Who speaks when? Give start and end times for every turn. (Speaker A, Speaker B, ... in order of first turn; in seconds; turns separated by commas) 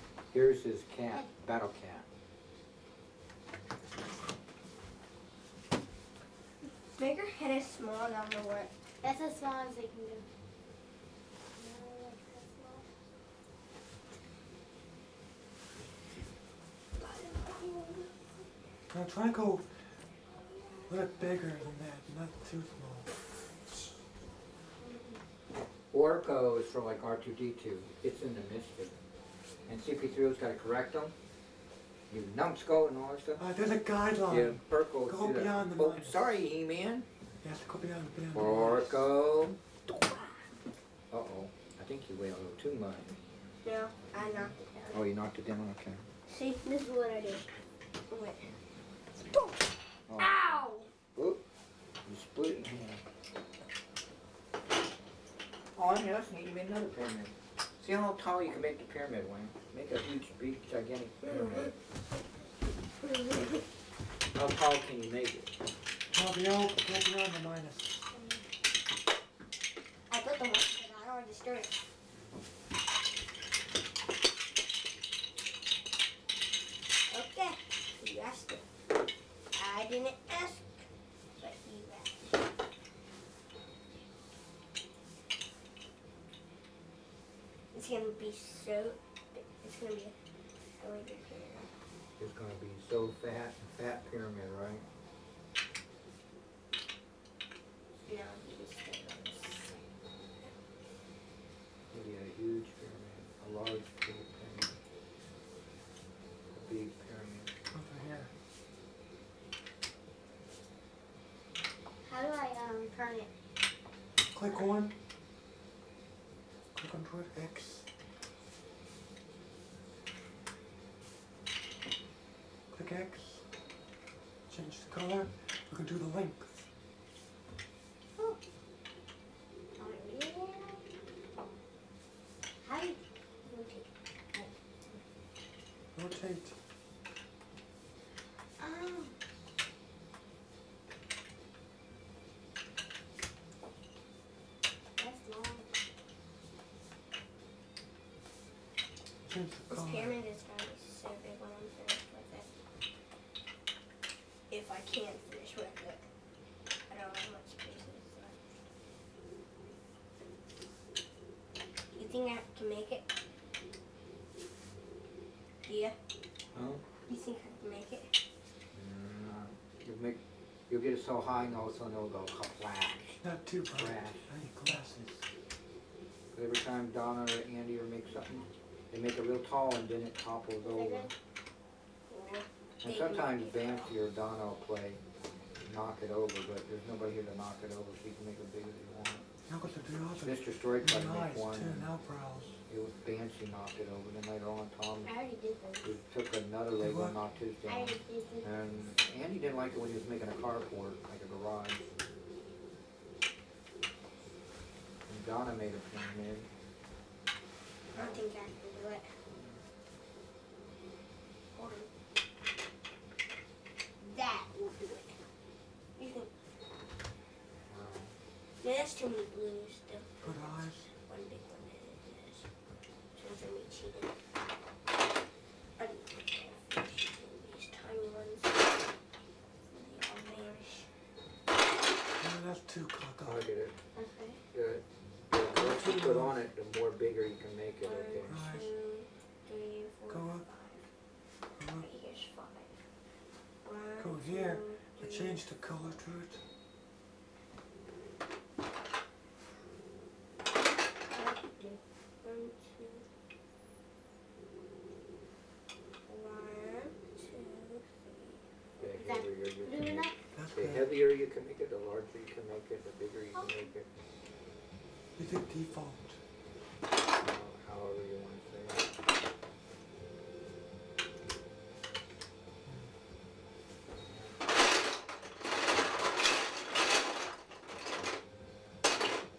Speaker A: 0.3-2.0, Speaker B: 7.0-8.7, Speaker C: 9.0-10.2, Speaker C: 11.5-12.8, Speaker C: 17.0-18.1, Speaker D: 18.9-19.7, Speaker D: 20.9-23.1, Speaker C: 24.8-25.2, Speaker A: 25.9-28.9, Speaker A: 29.7-31.1, Speaker A: 32.1-33.4, Speaker D: 33.4-36.3, Speaker A: 34.3-37.0, Speaker D: 37.4-39.0, Speaker A: 38.3-39.6, Speaker B: 39.9-40.4, Speaker A: 41.1-43.1, Speaker B: 43.6-44.9, Speaker A: 44.9-46.0, Speaker B: 46.3-47.5, Speaker B: 48.1-48.5, Speaker B: 49.3-49.5, Speaker A: 50.1-51.4, Speaker B: 50.2-50.9, Speaker A: 52.0-53.0, Speaker A: 55.8-61.7, Speaker B: 61.3-61.7, Speaker B: 63.0-63.6, Speaker A: 64.3-65.5, Speaker D: 66.1-68.1, Speaker B: 70.1-71.8, Speaker B: 77.1-78.6, Speaker B: 79.5-80.9, Speaker B: 81.4-82.3, Speaker B: 87.7-90.1, Speaker B: 90.8-91.7, Speaker A: 92.2-94.8, Speaker B: 98.0-99.8, Speaker A: 101.9-104.7, Speaker A: 106.5-107.5, Speaker D: 107.7-108.3, Speaker C: 112.0-113.3, Speaker D: 114.3-115.0, Speaker D: 116.7-117.9, Speaker D: 122.7-123.4, Speaker D: 124.5-126.7, Speaker C: 129.8-130.9, Speaker C: 132.6-135.0, Speaker D: 135.9-136.5, Speaker C: 138.6-139.1, Speaker C: 145.0-145.7, Speaker D: 149.2-150.2, Speaker B: 149.7-152.5, Speaker B: 154.5-156.0, Speaker B: 156.9-158.4, Speaker B: 161.9-163.1, Speaker B: 165.7-165.9, Speaker A: 166.5-166.8, Speaker B: 167.1-168.1, Speaker A: 168.7-173.2, Speaker D: 173.2-175.2, Speaker A: 173.7-174.3, Speaker A: 176.3-181.1, Speaker B: 180.7-181.0, Speaker B: 182.1-183.8, Speaker A: 182.8-185.0, Speaker A: 185.6-189.2, Speaker D: 189.5-192.6, Speaker A: 190.2-191.9, Speaker A: 192.7-195.1, Speaker C: 195.0-195.9, Speaker A: 195.8-201.8, Speaker D: 196.8-197.2, Speaker C: 197.6-198.5, Speaker A: 205.1-206.5, Speaker B: 207.9-209.1, Speaker A: 209.3-209.6, Speaker B: 211.5-211.9, Speaker B: 214.0-215.2, Speaker B: 216.0-216.3, Speaker A: 217.7-218.2, Speaker B: 218.6-220.2, Speaker D: 220.2-220.9, Speaker B: 221.1-222.4, Speaker B: 223.1-224.2, Speaker B: 225.8-228.6, Speaker B: 229.7-230.9, Speaker D: 232.2-233.5, Speaker A: 233.2-233.7, Speaker C: 233.9-234.4, Speaker A: 234.5-238.3, Speaker D: 235.5-236.4, Speaker B: 237.8-240.7, Speaker D: 238.3-238.7, Speaker D: 240.1-240.4, Speaker D: 241.6-241.9, Speaker B: 241.8-242.7, Speaker B: 243.6-245.4, Speaker D: 244.0-246.4, Speaker C: 251.2-251.8, Speaker B: 252.2-253.0, Speaker B: 256.1-258.4, Speaker A: 258.8-263.9, Speaker C: 259.0-260.2, Speaker D: 260.3-260.9, Speaker D: 265.2-266.2, Speaker A: 267.2-268.9